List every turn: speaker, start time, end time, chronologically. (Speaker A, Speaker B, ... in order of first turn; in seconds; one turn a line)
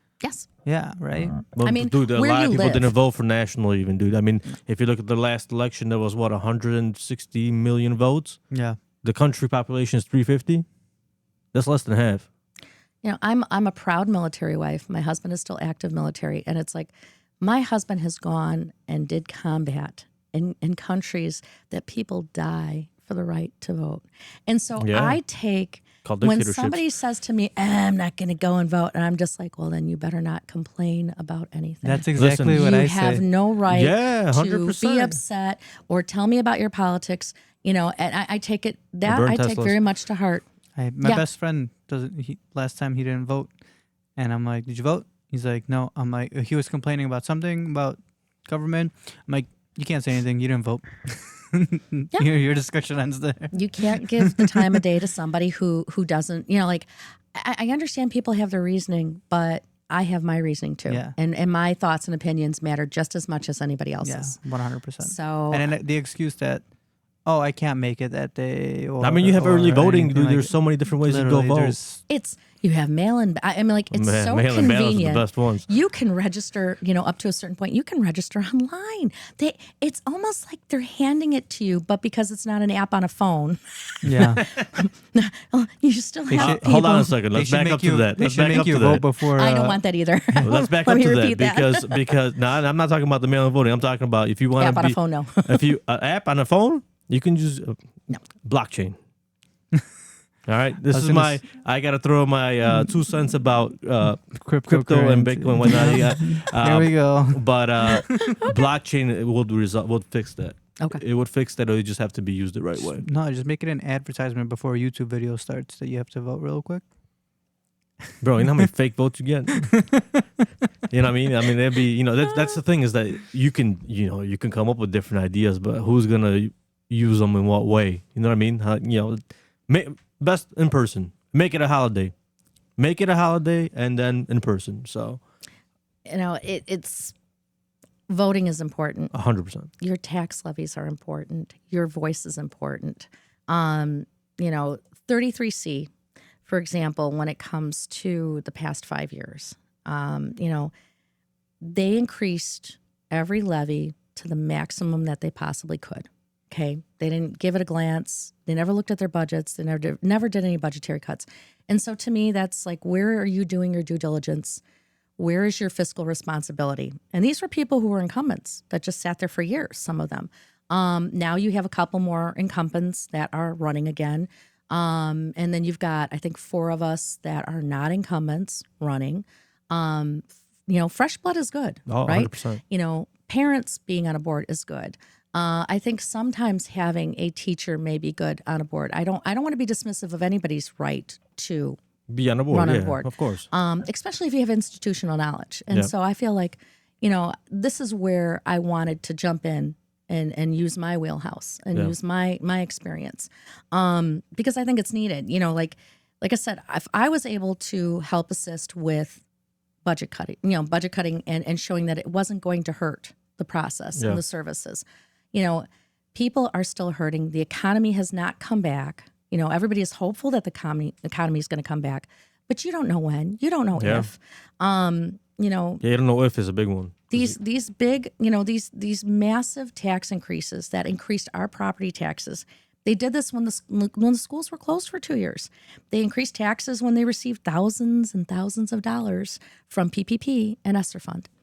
Speaker A: 0.2-0.5
Speaker B: 0.6-1.5
Speaker C: 1.5-8.4
Speaker A: 1.6-3.0
Speaker B: 8.5-8.8
Speaker C: 9.0-10.6
Speaker C: 11.5-12.3
Speaker A: 13.0-40.5
Speaker C: 24.8-25.2
Speaker C: 26.0-26.8
Speaker B: 31.8-33.2
Speaker C: 32.1-32.7
Speaker C: 33.7-35.2
Speaker C: 39.0-39.8
Speaker B: 40.8-43.5
Speaker B: 44.1-54.8
Speaker A: 53.5-64.4
Speaker B: 60.9-61.1
Speaker B: 64.0-66.6
Speaker A: 65.0-65.7
Speaker B: 67.2-72.0
Speaker C: 69.0-71.8
Speaker A: 72.1-87.2
Speaker C: 73.9-75.7
Speaker B: 84.0-84.4
Speaker B: 86.3-89.8
Speaker C: 86.3-89.1
Speaker A: 89.3-92.0
Speaker C: 90.4-97.8
Speaker A: 94.6-95.7
Speaker C: 98.3-99.0
Speaker C: 100.5-113.0
Speaker B: 100.9-101.4
Speaker B: 104.2-108.4
Speaker A: 107.9-108.6
Speaker B: 112.8-116.8
Speaker C: 118.2-119.9
Speaker B: 119.6-120.2
Speaker C: 120.9-132.1
Speaker C: 132.8-135.2
Speaker A: 136.1-137.1
Speaker A: 138.1-139.1
Speaker C: 139.1-139.7
Speaker A: 139.8-145.9
Speaker A: 146.4-150.7
Speaker A: 151.6-164.6
Speaker A: 165.2-191.8
Speaker C: 181.9-182.6
Speaker C: 192.1-193.5
Speaker A: 192.5-209.2
Speaker A: 209.8-225.8
Speaker C: 213.9-214.2
Speaker C: 223.8-224.1
Speaker C: 225.8-227.3
Speaker A: 227.1-241.3